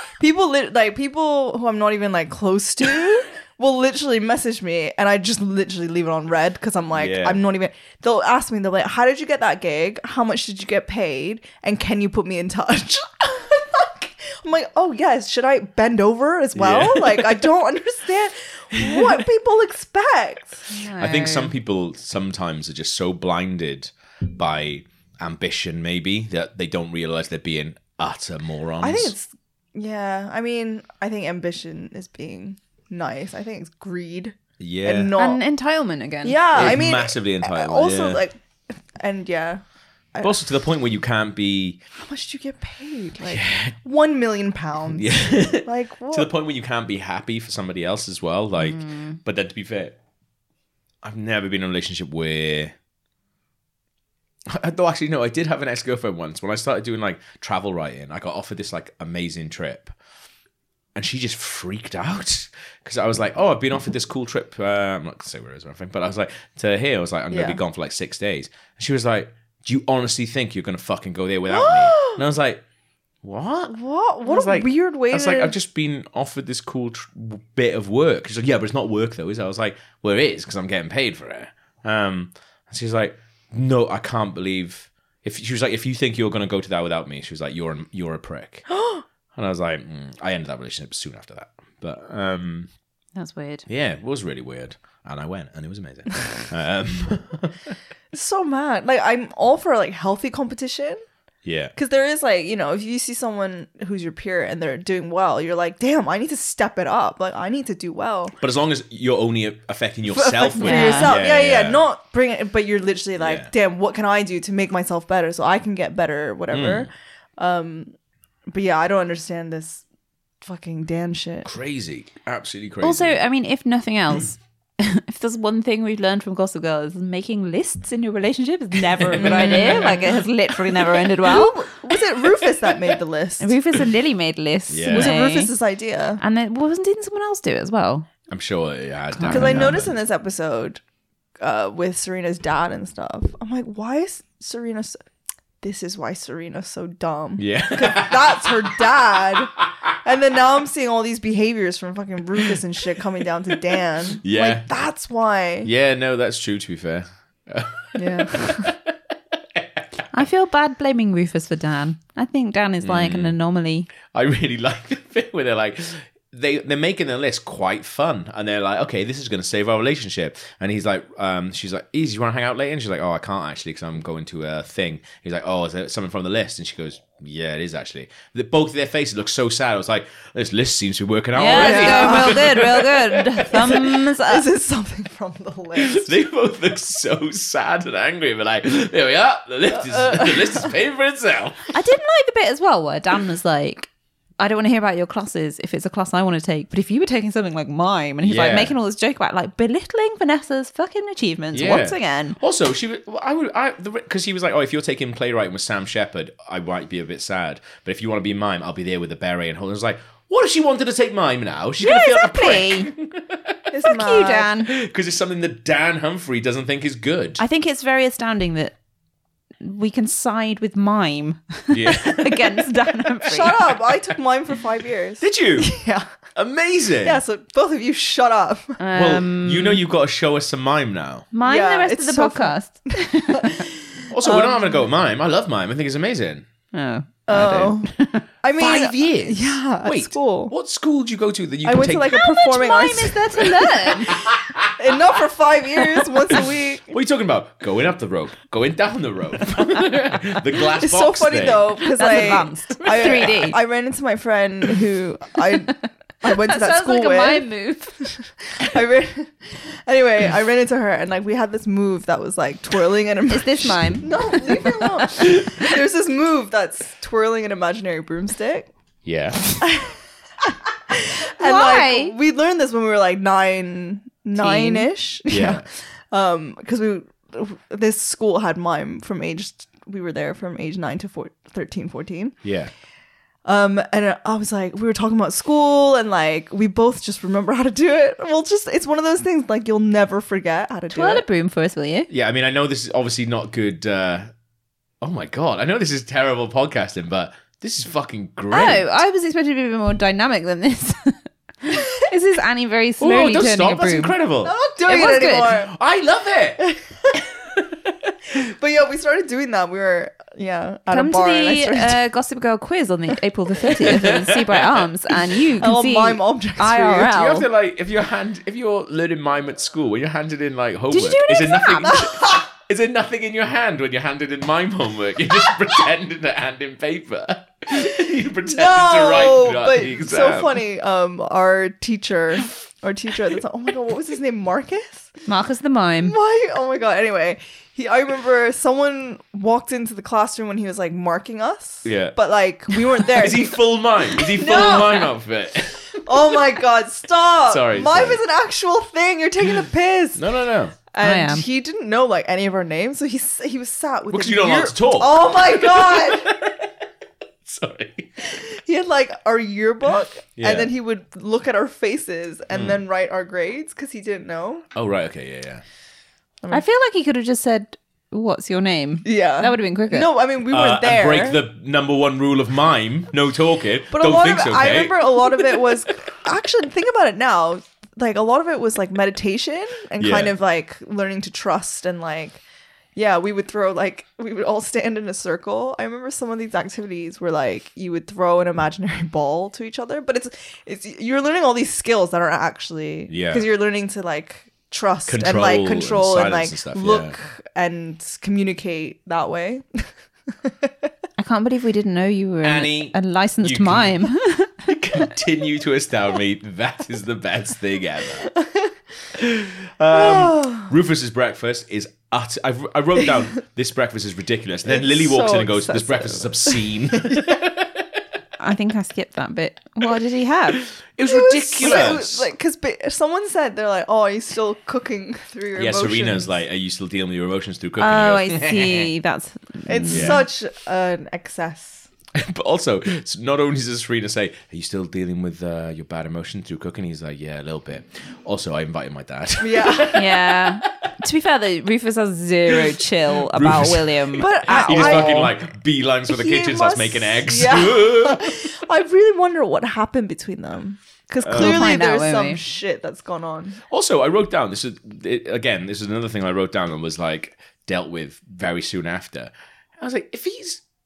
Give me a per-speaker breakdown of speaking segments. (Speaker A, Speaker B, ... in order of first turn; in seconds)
Speaker A: 0.2-20.7, 28.8-35.4, 36.2-39.6, 42.0-46.3, 67.3-67.6, 71.5-72.2, 73.7-75.5, 88.7-89.0, 98.1-101.0, 101.8-108.3, 110.1-117.9, 118.5-119.8, 120.4-121.5, 129.2-130.0, 131.2-133.5, 134.9-136.2, 139.3-140.8, 141.4-145.0, 145.6-155.7, 157.9-158.8, 181.5-182.7, 183.7-186.1, 189.7-190.7, 213.7-214.5, 223.3-226.1, 227.0-228.8, 231.4-234.8, 237.3-240.5, 241.6-246.9, 250.8-257.5, 258.5-268.7, 269.6-282.4, 283.4-291.2, 304.4-305.7, 306.6-307.1, 308.3-312.0, 315.6-317.1, 321.9-322.4, 328.5-335.1, 336.0-345.0, 346.0-350.3, 350.9-356.3, 358.2-364.6, 369.0-371.4, 373.9-382.4, 383.0-399.9, 400.4-400.7, 408.3-408.7, 409.9-410.7, 414.7-417.3, 421.1-426.3, 429.7-431.9, 439.4-440.0, 444.1-445.4, 446.1-453.6
Speaker B: 6.9-7.4, 16.6-17.5, 18.8-19.2, 21.0-29.1, 34.6-35.1, 36.5-38.2, 40.2-41.8, 43.3-43.8, 44.9-50.0, 51.0-52.7, 54.5-60.0, 61.0-72.6, 73.2-88.7, 89.3-92.7, 93.7-97.8, 101.4-101.7, 108.4-111.8, 113.2-113.5, 116.5-116.9, 121.4-123.2, 129.0-130.9, 134.7-135.2, 138.3-139.9, 147.4-148.7, 154.2-154.7, 155.6-160.0, 162.8-163.4, 164.1-183.9, 185.8-191.8, 198.2-198.8, 201.5-213.6, 214.6-217.4, 221.7-223.2, 225.2-225.8, 226.3-227.2, 228.9-231.3, 234.1-236.5, 237.3-237.7, 238.6-242.2, 244.0-244.7, 246.3-251.8, 253.0-253.3, 269.1-269.6, 275.3-275.7, 282.4-282.7, 292.1-294.3, 295.0-298.9, 303.0-304.5, 305.6-307.9, 313.8-314.9, 317.1-330.6, 341.8-342.2, 343.0-346.2, 347.5-348.2, 350.2-350.8, 354.1-356.8, 357.4-358.3, 360.4-360.7, 362.5-362.8, 364.8-365.6, 370.5-375.7, 380.0-380.3, 393.1-393.5, 395.1-397.1, 402.4-404.0, 404.6-408.3, 409.1-418.0, 420.8-422.3, 425.6-428.9, 429.9-430.2, 432.2-440.7, 442.5-448.5, 451.2-451.7, 453.7-460.6
Speaker C: 20.7-21.5, 35.2-36.4, 48.6-49.2, 93.2-93.7, 110.6-111.1, 122.8-131.7, 133.4-135.5, 136.2-138.1, 139.1-139.7, 160.1-163.9, 181.3-184.5, 191.7-202.4, 211.8-212.9, 213.8-214.7, 217.4-218.7, 219.6-223.6, 228.8-229.8, 231.3-233.6, 236.7-238.2, 242.1-244.1, 251.9-253.6, 256.2-258.1, 263.3-265.7, 271.4-272.1, 274.4-274.9, 290.9-292.1, 298.5-304.2, 304.9-305.7, 310.9-317.5, 320.9-322.1, 335.3-336.2, 344.4-345.0, 351.0-351.5, 366.5-370.1, 401.2-404.7, 418.4-420.7, 427.8-430.2, 439.9-445.2, 451.3-452.4